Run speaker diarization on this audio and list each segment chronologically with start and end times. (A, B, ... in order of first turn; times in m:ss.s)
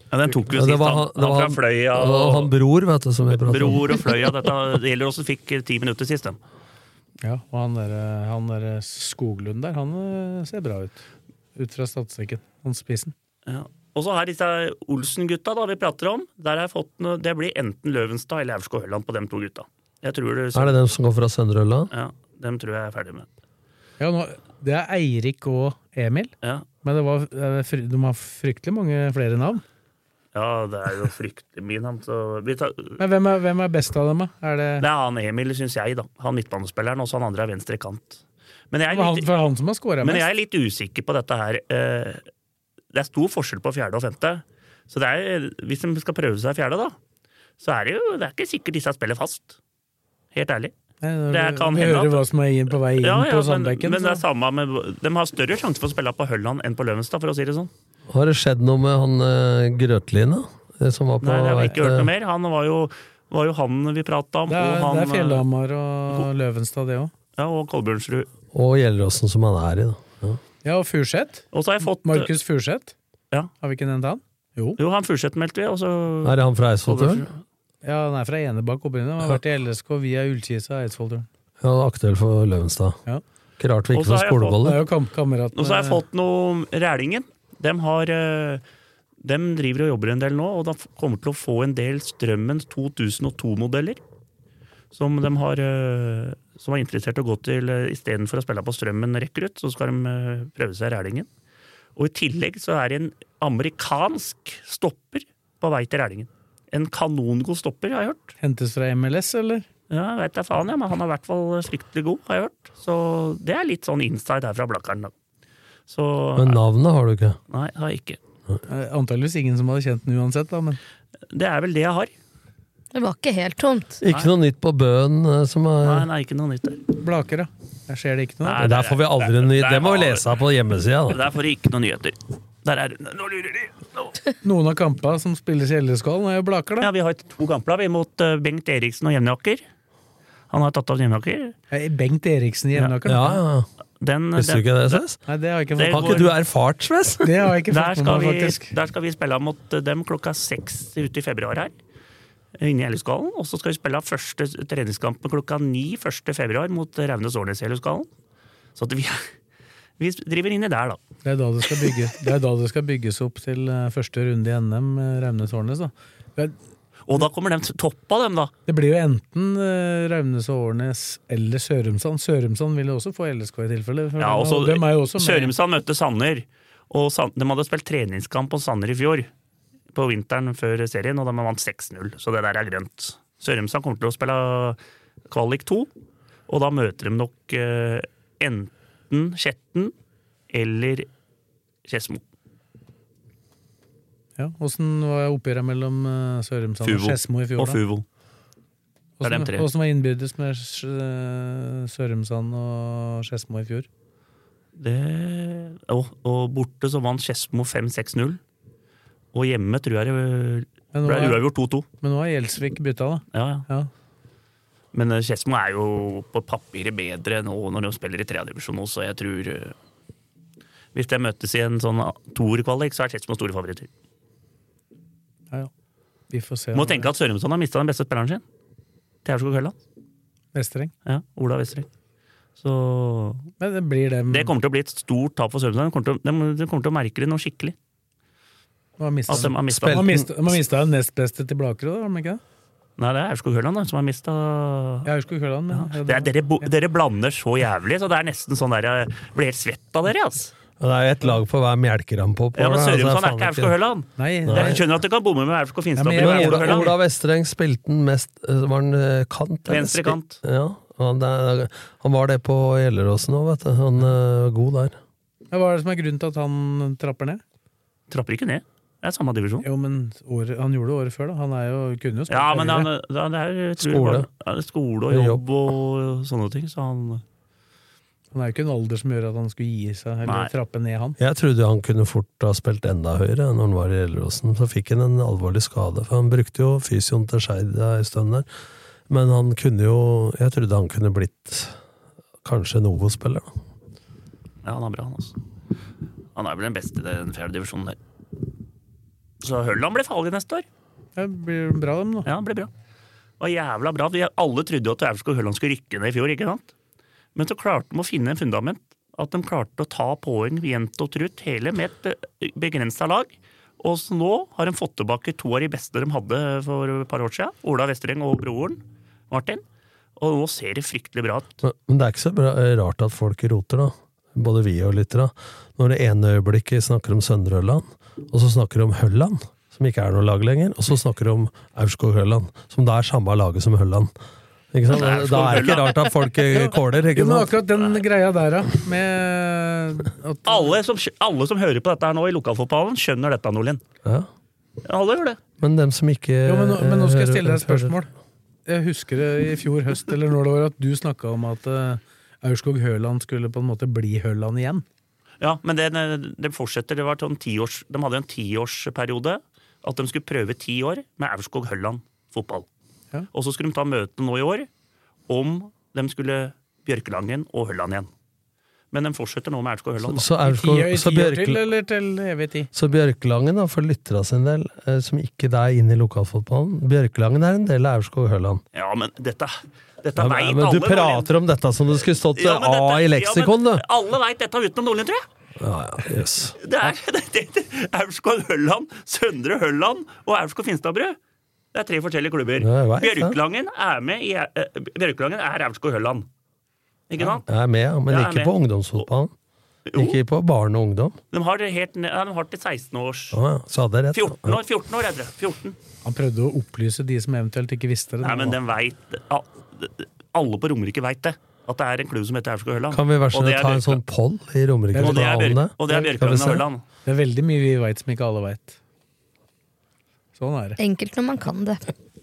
0:00.1-0:02.5 A
0:00.5-0:04.0 B
0:03.3-0:06.4 A
0:07.2-0:11.0 C
0:11.6-0:13.1 C
0:13.5-0:20.8 A
0:20.5-0:21.9 B
0:21.9-0:23.3 A
0:24.0-0:26.3 C
0:26.8-0:29.6 C
0:30.3-0:33.0 A
0:33.0-0:34.8 C
0:34.8-0:39.3 A
0:38.9-0:40.2 C
0:40.0-0:42.2 A
0:42.9-0:47.0 A
0:47.6-0:49.6 A
0:50.3-0:50.7 A
0:51.0-0:54.2 C
0:51.3-0:52.2 A
0:53.0-0:57.7 A
0:58.1-1:02.1 B
1:01.2-1:05.4 A
1:04.5-1:07.1 C
1:07.4-1:08.3 A
1:08.5-1:10.4 B
1:10.6-1:12.9 C
1:11.5-1:12.3 A
1:13.6-1:14.8 C
1:14.8-1:17.4 A
1:16.2-1:17.2 B
1:17.8-1:21.3 C
1:21.6-1:23.0 B
1:23.6-1:24.8 B
1:23.9-1:24.7 A
1:24.6-1:26.0 C
1:25.6-1:28.6 A
1:29.2-1:34.0 A
1:34.9-1:41.3 A
1:42.0-1:48.3 A
1:48.4-1:49.6 C
1:49.9-1:55.1 A
1:55.9-1:56.6 A
1:56.4-1:57.4 B
1:57.5-1:58.2 A
1:58.7-2:00.8 C
2:01.3-2:02.1 A
2:02.9-2:04.0 D
2:04.0-2:06.1 B
2:05.8-2:06.8 A
2:07.0-2:08.6 C
2:08.4-2:10.3 A
2:08.6-2:11.2 B
2:11.1-2:14.1 A
2:14.4-2:16.9 C
2:16.8-2:19.6 A
2:20.5-2:21.5 A
2:21.7-2:23.4 C
2:23.0-2:23.7 B
2:24.0-2:25.0 A
2:24.3-2:25.2 B
2:25.2-2:26.2 C
2:25.7-2:26.3 A
2:25.9-2:27.3 B
2:27.2-2:28.7 C
2:27.7-2:31.7 A
2:32.6-2:38.1 A
2:38.8-2:39.3 A
2:40.0-2:41.0 A
2:41.2-2:46.6 C
2:47.1-2:48.5 A
2:48.7-2:55.5 C
2:54.2-2:59.3 A
2:59.9-3:04.8 A
3:05.3-3:05.9 A
3:06.5-3:09.9 A
3:10.5-3:11.1 A
3:11.9-3:12.2 A
3:14.4-3:17.8 C
3:16.8-3:18.0 A
3:19.2-3:23.9 C
3:19.2-3:19.6 A
3:24.8-3:28.4 A
3:29.3-3:31.8 A
3:30.9-3:31.4 C
3:32.0-3:33.9 C
3:33.3-3:33.6 A
3:34.9-3:39.7 A
3:40.9-3:43.9 A
3:46.3-3:47.1 C
3:46.7-3:48.4 A
3:49.2-3:49.7 A
3:50.5-3:50.9 C
3:51.0-3:51.9 A
3:52.6-3:53.5 A
3:53.6-3:54.5 C
3:54.3-3:57.7 A
3:59.0-4:02.4 C
3:59.3-4:00.2 A
3:59.6-4:00.3 B
4:03.0-4:05.1 A
4:05.0-4:06.7 C
4:05.7-4:10.5 A
4:10.8-4:13.8 B
4:12.6-4:16.9 A
4:14.2-4:14.8 C
4:14.4-4:14.8 B
4:16.0-4:16.9 C
4:16.2-4:25.0 B
4:19.7-4:20.4 A
4:25.5-4:27.4 C
4:28.1-4:29.7 A
4:29.6-4:32.9 C
4:32.3-4:37.2 A
4:33.8-4:34.3 B
4:35.1-4:35.4 B
4:38.3-4:41.2 C
4:41.2-4:48.5 B
4:49.1-4:51.8 B
4:52.4-4:53.5 B
4:54.6-4:55.4 A
4:56.3-4:58.0 A
4:59.4-5:00.6 A
5:01.2-5:02.3 C
5:02.2-5:02.7 A
5:03.4-5:06.7 A
5:07.3-5:19.6 A
5:20.2-5:21.5 A
5:21.6-5:34.1 B
5:34.7-5:37.6 B
5:34.9-5:36.1 A
5:36.5-5:40.7 C
5:40.5-5:43.8 A
5:44.8-5:45.4 A
5:45.6-5:47.9 B
5:46.4-5:48.1 C
5:48.7-5:54.8 C
5:55.4-6:02.7 A
6:03.3-6:04.7 A
6:05.3-6:08.1 A
6:08.9-6:10.3 A
6:10.0-6:11.7 B
6:10.4-6:12.7 C
6:12.7-6:18.6 B
6:18.7-6:21.3 A
6:20.2-6:23.8 B
6:22.4-6:25.2 A
6:25.6-6:26.6 B
6:26.6-6:31.2 A
6:31.7-6:36.3 A
6:32.6-6:33.4 B
6:37.1-6:37.4 A
6:37.5-6:39.3 B
6:38.1-6:38.5 A
6:39.9-6:40.2 A
6:39.9-6:41.2 B
6:41.3-6:43.4 A
6:43.3-6:44.6 B
6:44.1-6:45.8 A
6:46.0-6:48.6 C
6:48.2-6:54.0 A
6:52.9-6:56.6 B
6:54.9-6:55.3 C
6:55.0-6:56.8 A
6:57.0-6:58.8 C
7:00.4-7:00.8 C
7:00.8-7:01.8 D